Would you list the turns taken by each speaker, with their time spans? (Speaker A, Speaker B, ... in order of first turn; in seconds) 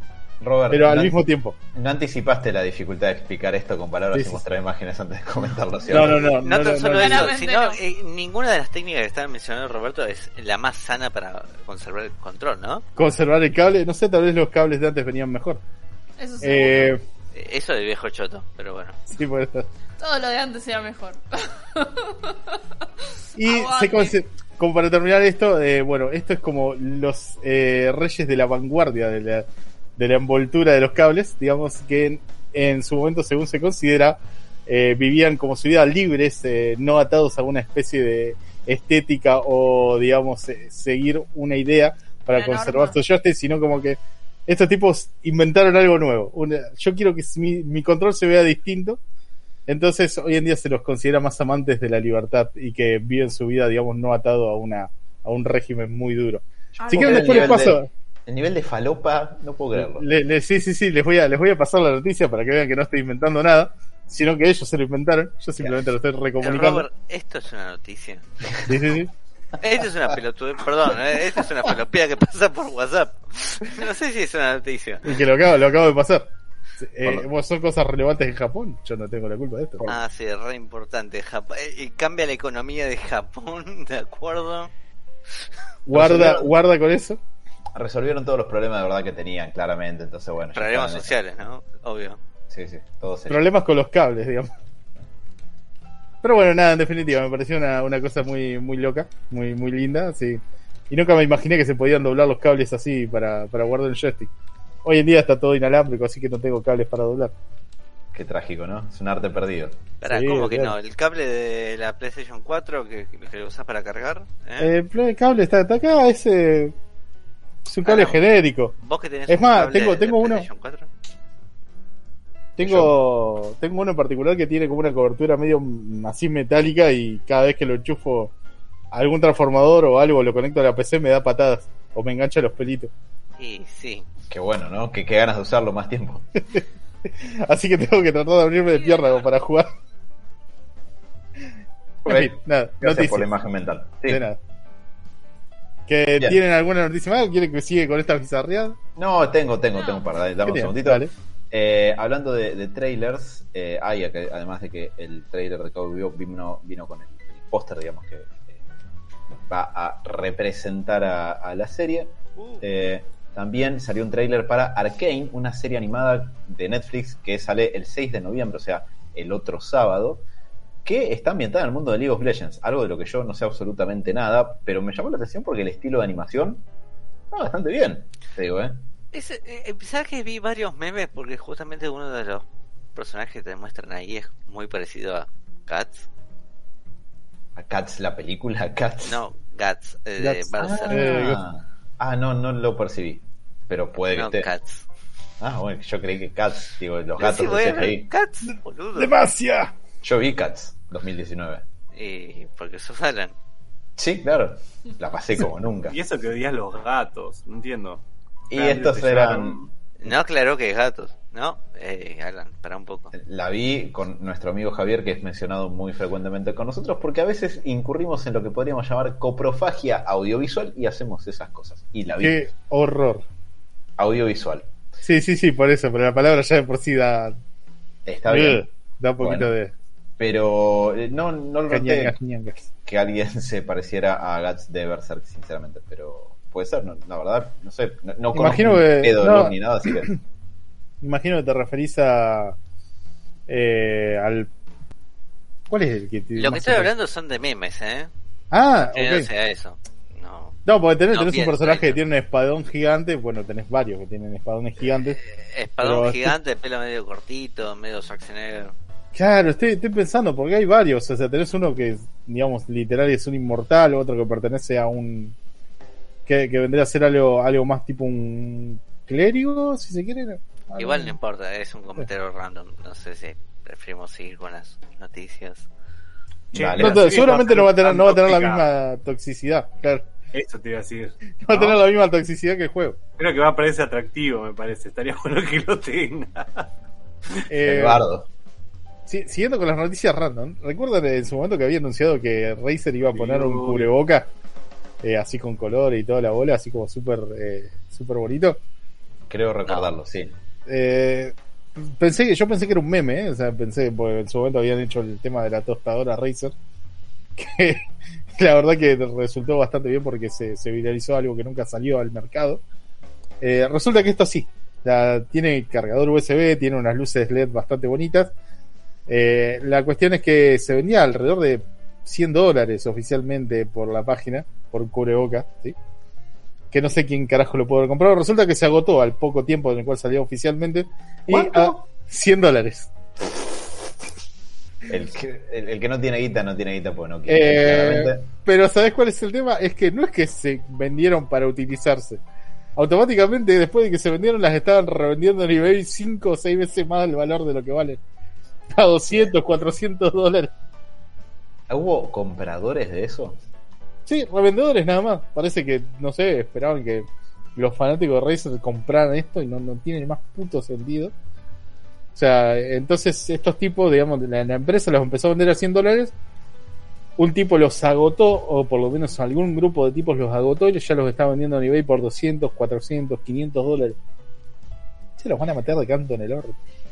Speaker A: 0.4-1.2, 1.7-6.2, 56.8-60.0, 85.9-86.5, 87.8-91.1, 92.5-93.4, 108.1-109.8, 122.6-122.9, 134.3-136.4, 142.1-144.2, 148.9-158.6, 159.3-170.2, 170.8-176.6, 177.3-178.8, 187.6-189.2, 190.6-194.5, 195.4-198.1, 200.0-201.6, 204.0-206.0, 208.5-209.5, 213.1-222.4, 224.0-224.7, 228.1-228.7, 229.2-229.5, 230.2-232.1, 232.8-240.1, 276.5-277.0, 287.6-288.3, 299.3-300.3, 331.3-331.8, 334.9-338.2, 351.7-353.4
Speaker B: 0.7-1.6, 4.1-4.4, 5.9-7.3, 12.9-15.6, 16.4-17.0, 19.1-19.7, 23.4-29.4, 30.0-49.0, 49.7-57.9, 59.7-66.8, 68.7-69.1, 75.0-76.3, 76.8-79.9, 85.8-87.2, 93.3-94.5, 96.2-104.3, 104.8-107.3, 110.0-110.7, 114.6-116.7, 117.7-118.7, 119.3-120.5, 122.6-128.3, 128.9-132.9, 137.2-139.7, 142.0-143.3, 144.1-144.4, 145.9-148.8, 150.4-151.1, 190.2-191.4, 198.9-199.7, 222.2-223.2, 225.0-227.3, 228.3-229.7, 231.7-232.6, 238.3-240.1, 241.0-242.6, 243.5-244.5, 245.7-246.9, 248.5-249.3, 250.7-255.2, 255.8-256.3, 259.1-265.4, 266.2-271.2, 276.8-280.1, 281.4-283.0, 287.5-288.0, 289.1-294.3, 295.0-298.6, 300.6-306.5, 307.4-312.6, 313.4-318.3, 319.1-325.7, 326.7-332.9, 337.3-342.2, 342.8-348.0, 348.7-350.5, 354.1-361.1, 362.1-366.1, 367.2-374.0, 375.2-376.6
Speaker C: 5.9-12.8, 17.3-19.0, 66.4-68.2, 69.6-75.1, 79.8-84.7, 90.5-92.2, 110.0-114.7, 117.8-118.2, 118.8-120.9, 133.4-134.1, 162.4-162.6, 179.1-186.1, 189.0-191.4, 194.1-194.8, 197.2-199.1, 201.9-203.3, 210.0-213.1, 246.3-248.1, 248.9-250.6, 251.1-252.0, 254.9-258.7, 270.7-275.7
Speaker D: 7.0-7.8, 16.2-16.9, 20.0-22.6, 23.4-24.1, 42.3-43.0, 56.8-57.6, 138.8-139.2
Speaker E: 205.9-208.0, 208.5-209.7, 276.5-278.6, 280.3-281.2, 283.2-286.7, 293.1-293.9